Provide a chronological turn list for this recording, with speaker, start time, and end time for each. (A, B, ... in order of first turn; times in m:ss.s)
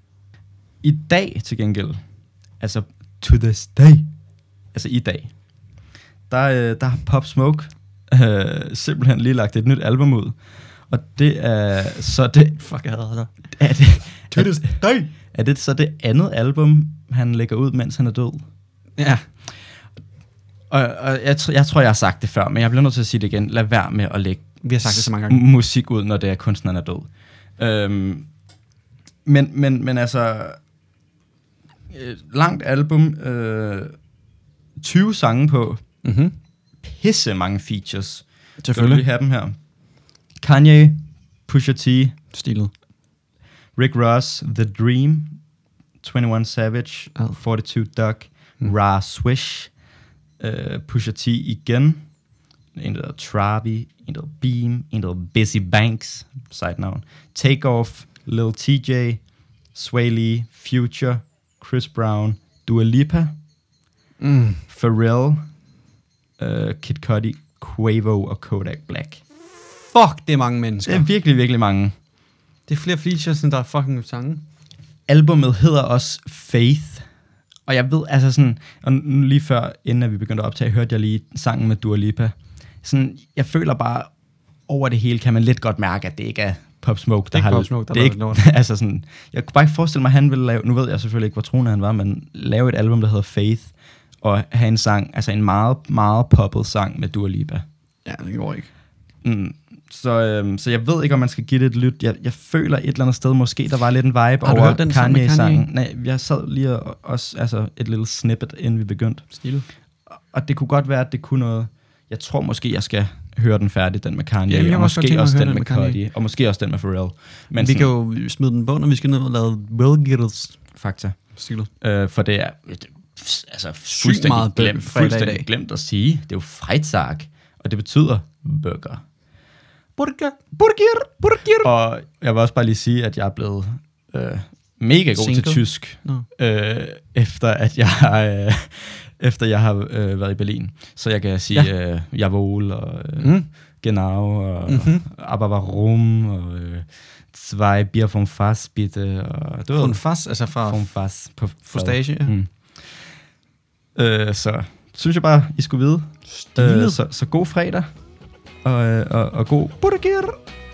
0:00.8-0:12.7 A
0:12.6-0:15.1 B
0:13.5-0:18.5 A
0:19.0-0:19.3 B
0:20.7-0:28.4 A
0:24.6-0:25.4 B
0:29.2-0:30.6 A
0:31.9-0:34.1 A
0:34.8-0:36.0 A
0:36.0-0:36.4 B
0:36.8-0:42.2 A
0:38.6-0:39.0 B
0:42.3-0:42.7 B
0:43.7-0:45.4 A
0:46.0-0:49.8 A
0:50.4-1:03.4 A
1:04.2-1:04.6 B
1:04.7-1:05.6 A
1:06.4-1:09.2 A
1:09.8-1:11.1 B
1:10.8-1:11.9 A
1:12.7-1:14.4 B
1:15.1-1:17.1 A
1:17.6-1:37.6 A
1:27.3-1:28.4 B
1:38.0-1:38.7 B
1:39.2-1:57.9 A
1:44.4-1:45.7 B
1:49.4-1:49.6 B
1:54.5-1:56.0 B
1:57.6-2:00.7 B
2:00.7-2:09.0 A
2:01.3-2:01.7 B
2:03.9-2:05.5 B
2:10.0-2:11.7 B
2:11.6-2:33.3 A
2:15.1-2:16.3 B
2:23.2-2:23.8 B
2:24.6-2:25.1 B
2:29.7-2:31.0 B
2:31.6-2:32.4 B
2:34.0-2:37.9 A
2:36.3-2:37.0 B
2:38.6-2:40.4 A